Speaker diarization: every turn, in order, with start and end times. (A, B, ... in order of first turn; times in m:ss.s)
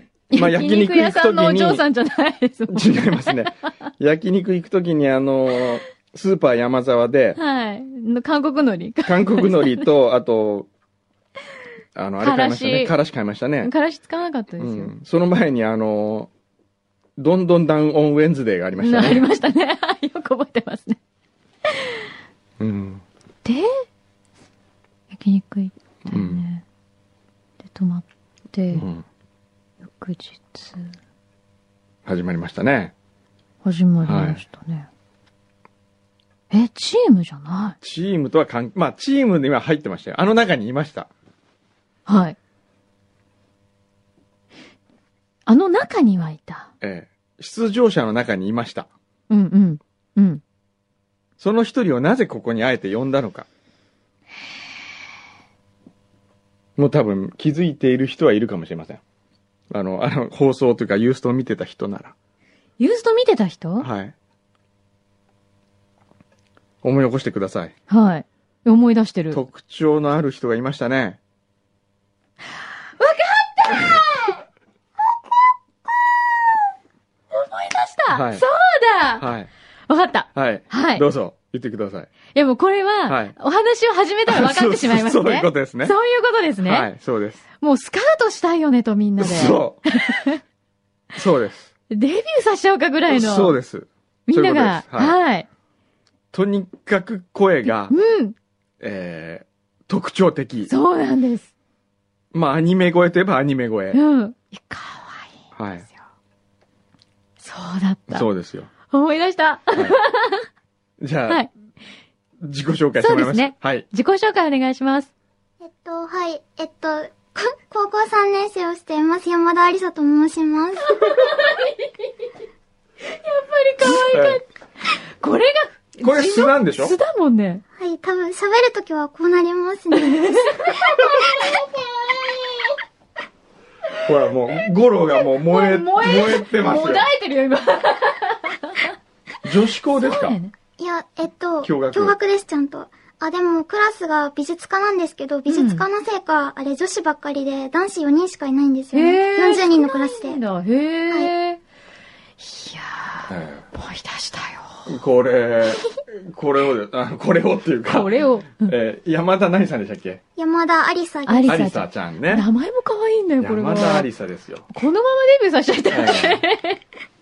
0:00.3-0:03.5 A
0:00.3-0:01.8 B
0:02.7-0:07.4 B
0:07.4-0:09.9 A
0:09.0-0:10.7 B
0:12.0-0:13.7 B
0:12.2-0:13.0 A
0:13.6-0:14.9 A
0:14.6-0:16.3 B
0:17.2-0:19.3 B
0:18.8-0:21.0 A
0:21.7-0:22.1 A
0:22.6-0:23.0 B
0:23.4-0:23.8 A
0:25.1-0:26.6 A
0:26.1-0:26.4 B
0:27.6-0:28.9 A
0:28.7-0:29.0 B
0:29.9-0:30.9 A
0:32.0-0:32.9 B
0:33.6-0:34.9 A
0:34.0-0:34.4 B
0:36.5-0:37.8 A
0:37.8-0:41.1 B
0:42.1-0:42.4 A
0:45.5-0:46.7 A
0:46.8-0:48.9 B
0:49.3-0:50.4 A
0:51.4-0:53.5 B
0:56.8-0:59.0 B
0:59.7-1:02.2 B
1:02.8-1:03.9 A
1:03.8-1:04.1 B
1:06.8-1:07.7 B
1:07.9-1:09.4 A
1:09.3-1:11.2 B
1:13.0-1:14.4 A
1:17.3-1:19.3 A
1:18.1-1:18.4 B
1:19.2-1:19.5 B
1:19.9-1:21.1 A
1:20.4-1:22.1 B
1:22.3-1:26.9 A
1:23.1-1:23.4 B
1:24.3-1:26.0 B
1:26.6-1:27.4 B
1:27.6-1:30.4 A
1:29.2-1:29.9 B
1:31.2-1:31.7 B
1:31.9-1:33.6 A
1:33.1-1:35.2 B
1:34.3-1:35.5 A
1:36.3-1:37.9 B
1:37.7-1:38.4 A
1:38.8-1:40.7 B
1:40.7-1:41.5 A
1:42.3-1:44.0 B
1:43.9-1:45.4 A
1:45.6-1:45.9 B
1:47.4-1:48.3 A
1:48.1-1:48.7 B
1:48.9-1:50.5 A
1:51.0-1:51.4 B
1:52.4-1:53.8 B
1:53.0-1:55.1 A
1:55.6-2:01.2 C
2:01.0-2:02.1 A
2:03.0-2:07.6 A
2:04.1-2:04.4 B
2:06.0-2:07.0 B
2:07.8-2:11.5 C
2:10.0-2:12.8 A
2:14.0-2:17.0 B
2:15.1-2:18.9 A
2:19.4-2:20.4 B
2:20.0-2:20.5 A
2:20.8-2:30.4 C
2:21.6-2:22.2 B
2:25.5-2:25.8 A
2:28.9-2:31.6 A
2:32.4-2:34.9 A
2:33.3-2:33.7 B
2:34.9-2:40.2 B
2:37.9-2:38.7 A
2:40.4-2:41.6 C
2:41.3-2:44.1 A
2:41.5-2:42.5 B
2:43.4-2:44.7 B
2:44.7-2:46.8 A
2:45.9-2:46.4 B